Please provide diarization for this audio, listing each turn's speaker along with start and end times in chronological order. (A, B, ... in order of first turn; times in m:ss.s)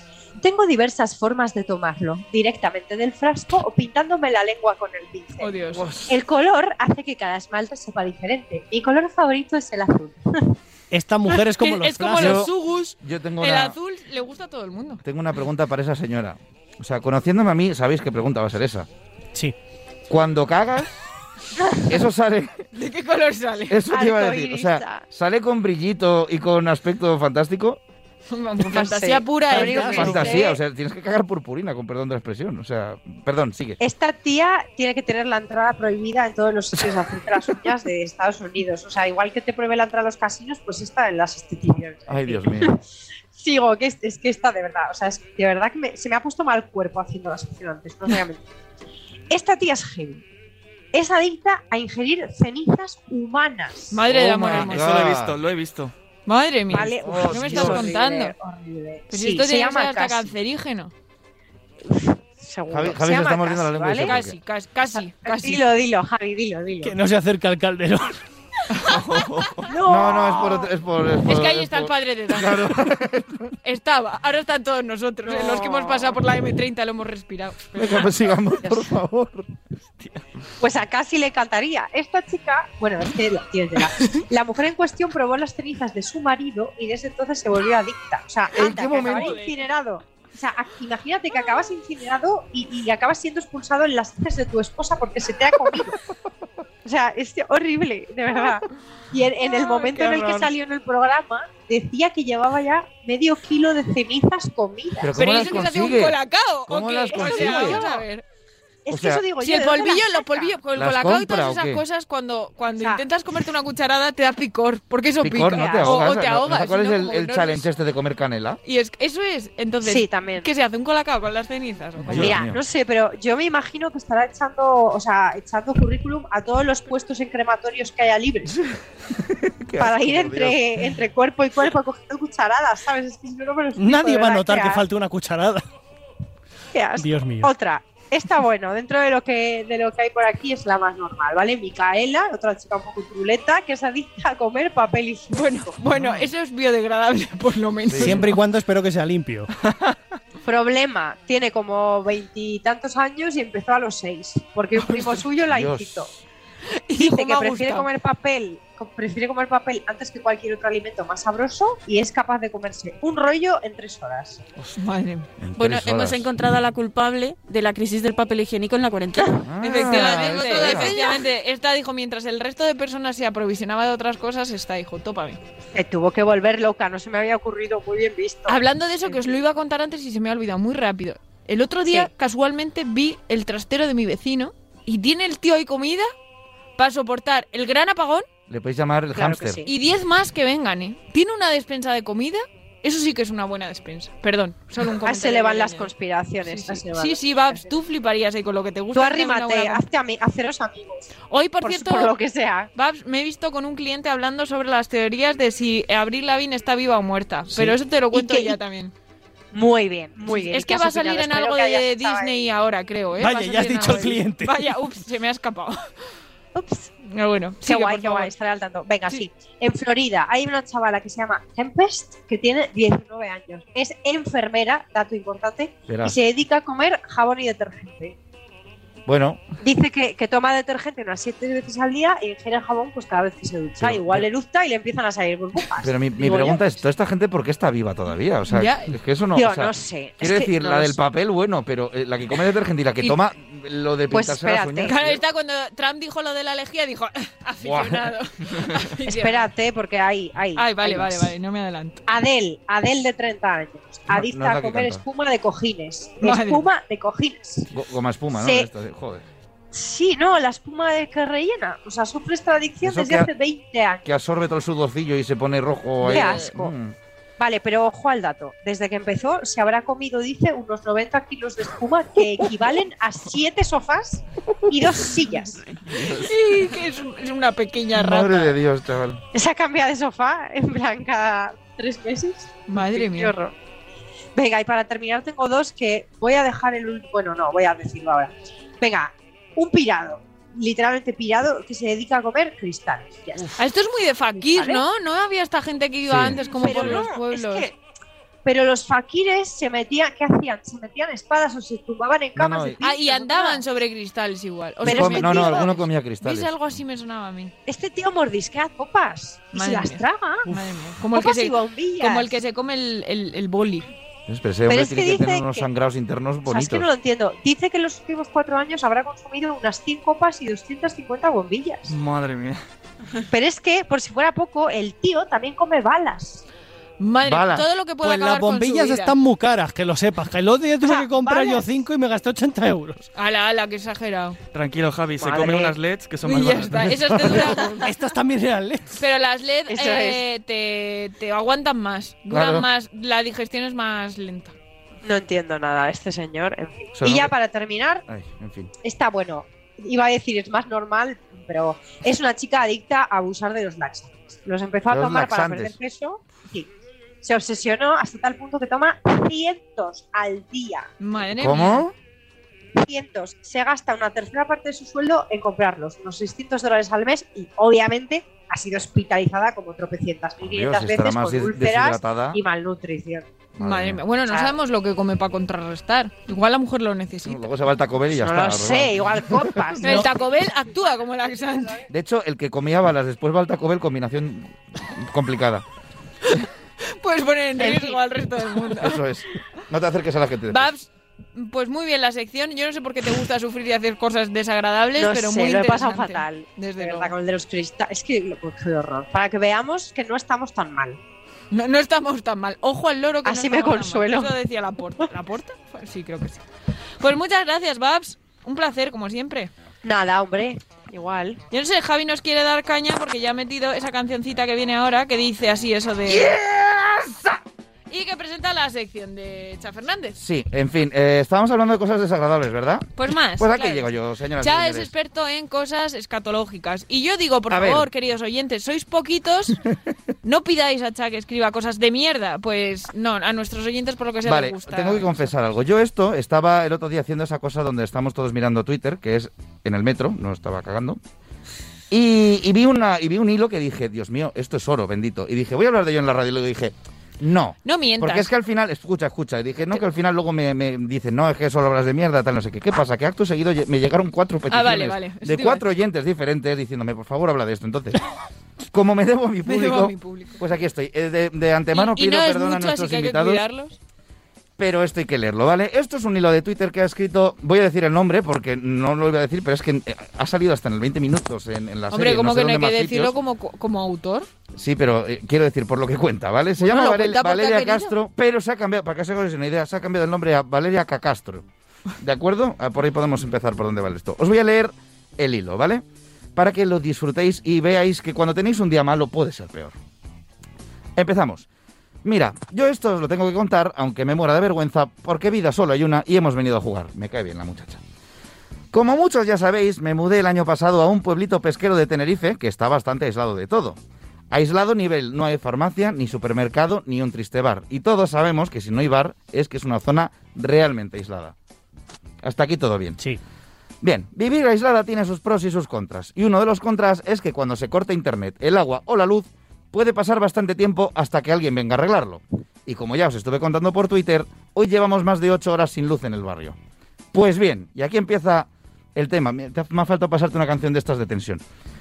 0:00.4-0:10.6 A
0:05.4-0:05.9 B
0:05.8-0:06.2 C
0:10.9-0:12.5 D
0:11.5-0:15.0 B
0:12.2-0:13.8 C
0:15.0-0:18.9 C
0:20.1-0:21.0 C
0:21.8-0:22.6 C
0:22.8-0:23.8 B
0:23.7-0:27.8 C
0:23.9-0:25.0 A
0:28.3-0:30.4 B
0:28.6-0:30.6 A
0:29.5-0:30.2 D
0:29.9-0:33.8 C
0:33.8-0:42.8 A
0:42.1-0:42.8 C
0:43.3-0:48.5 A
0:49.3-0:50.2 A
0:50.9-0:54.0 A
0:53.9-0:54.9 B
0:54.1-0:55.4 C
0:54.4-0:55.9 E
0:56.3-0:58.3 B
0:56.7-1:00.3 A
0:57.0-0:57.9 C
0:59.1-1:00.9 B
1:01.8-1:04.2 A
1:02.7-1:04.4 C
1:04.0-1:05.6 B
1:04.9-1:07.0 A
1:06.8-1:08.2 D
1:08.9-1:09.6 E
1:09.7-1:10.7 A
1:09.8-1:13.5 C
1:11.3-1:12.8 B
1:13.6-1:18.1 B
1:15.3-1:16.2 A
1:17.8-1:19.5 C
1:18.6-1:18.9 A
1:20.6-1:36.0 A
1:28.5-1:29.4 C
1:28.8-1:29.6 B
1:36.8-1:45.6 A
1:39.4-1:40.5 B
1:45.0-1:47.9 C
1:45.2-1:48.2 B
1:47.1-1:48.1 A
1:48.9-1:50.6 A
1:48.9-1:49.2 C
1:49.4-1:57.7 B
1:50.8-1:51.8 C
1:52.8-1:53.0 A
1:55.2-1:58.6 C
1:55.5-1:56.1 A
1:58.6-2:02.4 B
1:59.8-2:00.5 A
2:02.0-2:02.6 C
2:02.1-2:08.6 A
2:09.2-2:10.6 C
2:09.8-2:14.8 A
2:13.8-2:15.6 D
2:16.7-2:25.8 A
2:17.0-2:17.5 D
2:25.3-2:28.4 B
2:27.9-2:28.3 C
2:28.0-2:29.5 D
2:29.7-2:30.0 E
2:30.4-2:36.1 A
2:35.5-2:36.2 C
2:36.9-2:37.9 B
2:37.0-2:44.4 A
2:44.8-2:45.3 B
2:45.4-2:46.3 C
2:45.6-2:49.5 F
2:49.4-2:51.0 C
2:49.6-2:55.4 B
2:49.9-2:51.3 A
2:55.7-2:59.4 A
2:58.5-3:06.1 B
3:06.8-3:08.3 B
3:08.5-3:09.6 C
3:09.2-3:09.7 A
3:09.6-3:15.9 B
3:15.0-3:17.7 A
3:16.4-3:19.8 B
3:18.9-3:22.7 A
3:21.3-3:22.2 B
3:22.8-3:28.9 B
3:28.1-3:28.6 A
3:29.5-3:32.5 A
3:30.3-3:35.8 B
3:33.2-3:34.7 D
3:36.6-3:36.9 A
3:37.0-3:38.4 B
3:37.6-3:48.2 A
3:45.9-3:46.2 C
3:49.1-3:49.4 C
3:49.6-3:56.7 A
3:53.8-3:54.3 C
3:55.8-4:05.2 C
3:58.5-3:59.0 B
3:59.4-4:01.0 A
4:04.1-4:05.0 A
4:04.9-4:09.5 B
4:07.6-4:08.1 C
4:09.0-4:11.3 A
4:10.6-4:12.0 B
4:12.1-4:17.7 A
4:14.1-4:15.0 C
4:16.2-4:16.7 B
4:17.7-4:19.3 C
4:18.4-4:18.7 A
4:19.7-4:24.1 A
4:22.8-4:23.3 C
4:24.0-4:27.0 C
4:26.0-4:26.7 A
4:26.1-4:26.5 B
4:27.4-4:35.7 A
4:36.1-4:38.6 B
4:38.0-4:39.2 C
4:39.3-4:43.6 A
4:42.7-4:43.3 B
4:44.4-4:53.6 A
4:53.6-4:57.7 B
4:54.3-4:54.8 A
4:56.1-4:57.0 C
4:56.4-4:57.8 A
4:58.4-5:03.6 A
5:02.4-5:02.8 C
5:02.8-5:07.5 B
5:04.8-5:05.7 A
5:04.8-5:06.8 C
5:07.7-5:10.5 A
5:09.5-5:13.9 B
5:11.1-5:12.3 A
5:14.3-5:16.9 C
5:14.7-5:15.7 A
5:16.5-5:21.9 A
5:21.9-5:22.6 E
5:23.3-5:26.4 A
5:27.0-5:29.1 B
5:27.2-5:27.7 C
5:28.0-5:33.0 D
5:30.8-5:31.7 A
5:33.2-5:34.4 B
5:34.5-5:37.1 E
5:35.2-5:35.8 A
5:36.2-5:37.9 B
5:37.1-5:37.5 C
5:37.8-5:39.0 D
5:39.0-5:44.5 B
5:39.7-5:40.2 A
5:42.3-5:42.7 C
5:45.0-5:48.0 A
5:47.0-5:47.3 C
5:48.1-5:48.7 C
5:48.8-5:56.7 A
5:54.9-5:55.8 C
5:57.2-6:00.9 A
6:01.0-6:01.8 B
6:01.4-6:01.9 C
6:02.8-6:13.3 A
6:10.4-6:12.4 C
6:13.6-6:14.0 C
6:13.6-6:17.5 B
6:14.3-6:14.6 A
6:17.2-6:19.7 C
6:18.1-6:21.8 A
6:19.8-6:21.8 B
6:21.9-6:25.6 C
6:27.0-6:29.0 B
6:27.6-6:28.0 A
6:28.8-6:30.7 C
6:30.5-6:37.1 B
6:35.0-6:41.0 A
6:41.5-6:46.4 B
6:43.2-6:44.4 A
6:47.0-6:49.5 B
6:49.8-6:51.4 A
6:51.5-6:56.4 B
6:56.1-6:57.4 C
6:57.9-7:00.2 B
7:00.2-7:04.9 C
7:03.0-7:03.9 B
7:04.4-7:09.6 B
7:07.5-7:07.9 C
7:10.2-7:15.3 B
7:14.2-7:21.0 C
7:21.9-7:38.0 C
7:27.6-7:28.3 B
7:34.5-7:35.7 B
7:38.7-7:43.4 C
7:39.4-7:40.4 B
7:41.7-7:43.8 B
7:44.6-7:53.2 C
7:51.9-7:54.3 B
7:54.5-8:01.4 C
7:56.6-7:57.9 B
8:02.0-8:05.8 C
8:06.4-8:09.8 C
8:11.0-8:11.5 C
8:12.0-8:17.8 C
8:18.7-8:23.8 C
8:24.3-8:31.4 C
8:32.2-8:33.0 C
8:33.8-8:46.6 C
8:47.1-8:51.4 C